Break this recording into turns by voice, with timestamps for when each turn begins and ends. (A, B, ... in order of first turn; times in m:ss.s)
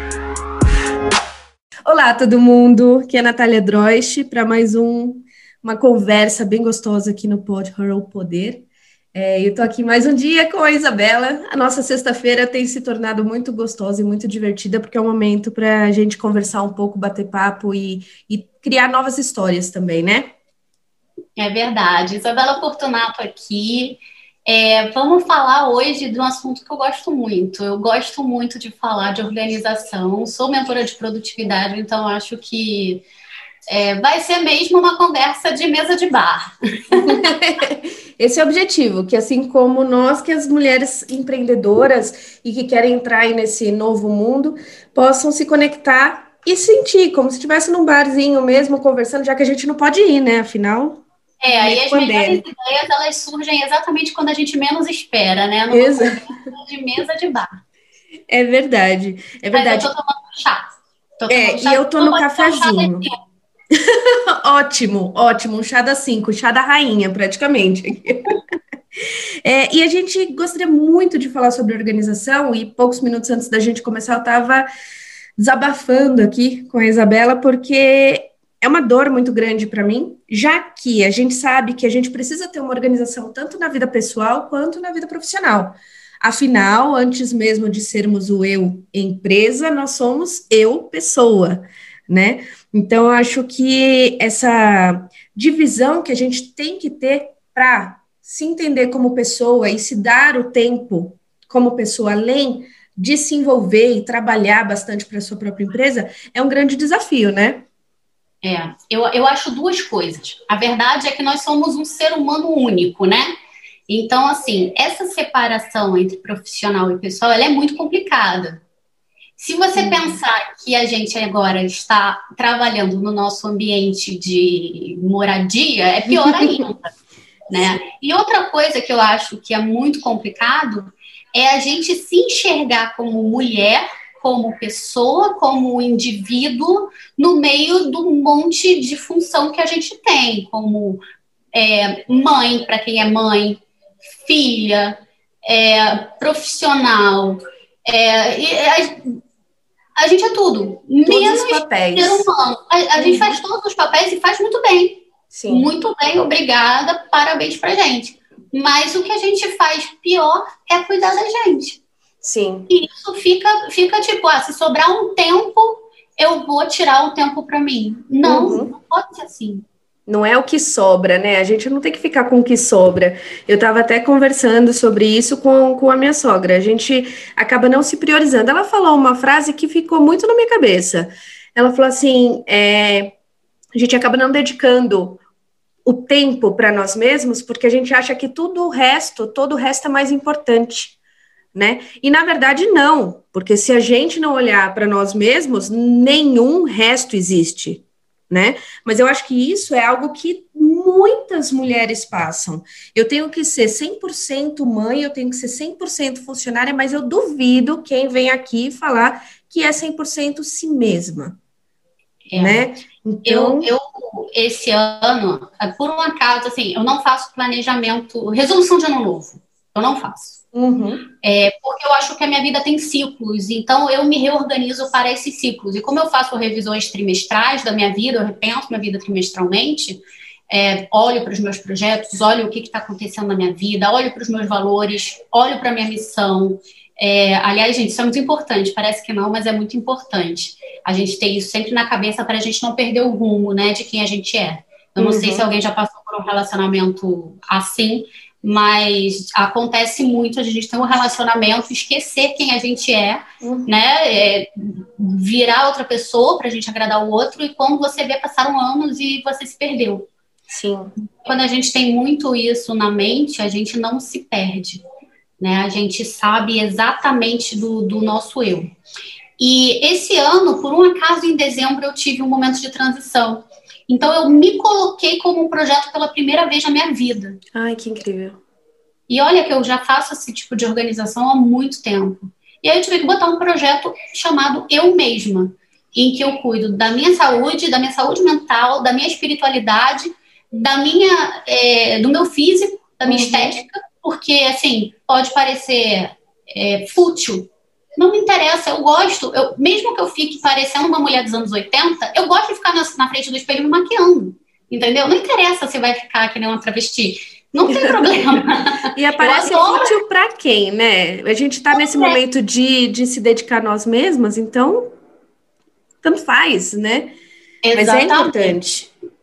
0:01.9-0:20.3 A
0:21.4-0:33.0 B
0:33.7-0:37.2 B
0:37.0-0:52.4 A
0:51.4-0:57.5 B
0:55.7-0:56.4 A
0:58.3-0:59.9 A
0:59.5-1:03.1 B
1:01.3-1:03.1 A
1:04.4-1:08.4 A
1:09.4-1:14.7 A
1:15.4-1:47.7 A
1:48.4-1:53.3 B
1:53.9-1:58.6 B
1:59.4-2:06.9 B
1:59.8-2:00.2 A
2:06.1-2:06.6 A
2:07.5-2:21.0 B
2:21.5-2:23.6 B
2:24.2-2:29.2 B
2:30.0-2:41.8 B
2:31.1-2:32.3 A
2:33.0-2:33.4 A
2:35.3-2:35.7 A
2:42.2-2:42.7 A
2:42.7-2:49.7 B
2:48.2-2:48.7 A
2:50.1-3:03.2 A
3:03.8-3:05.2 A
3:05.8-3:11.0 A
3:11.5-3:31.4 A
3:32.3-3:32.7 B
3:32.3-3:33.7 A
3:33.3-3:40.4 B
3:40.5-3:41.0 A
3:41.2-4:20.1 B
4:05.0-4:05.5 A
4:13.4-4:13.7 A
4:20.5-4:20.9 A
4:21.1-4:24.8 B
4:25.4-4:28.7 B
4:29.4-4:37.4 B
4:37.6-4:38.4 A
4:39.1-5:10.0 B
4:53.1-4:53.6 A
5:07.7-5:08.2 A
5:08.9-5:14.9 A
5:11.7-5:12.2 B
5:16.0-5:17.1 A
5:17.6-5:18.6 B
5:17.7-5:18.9 A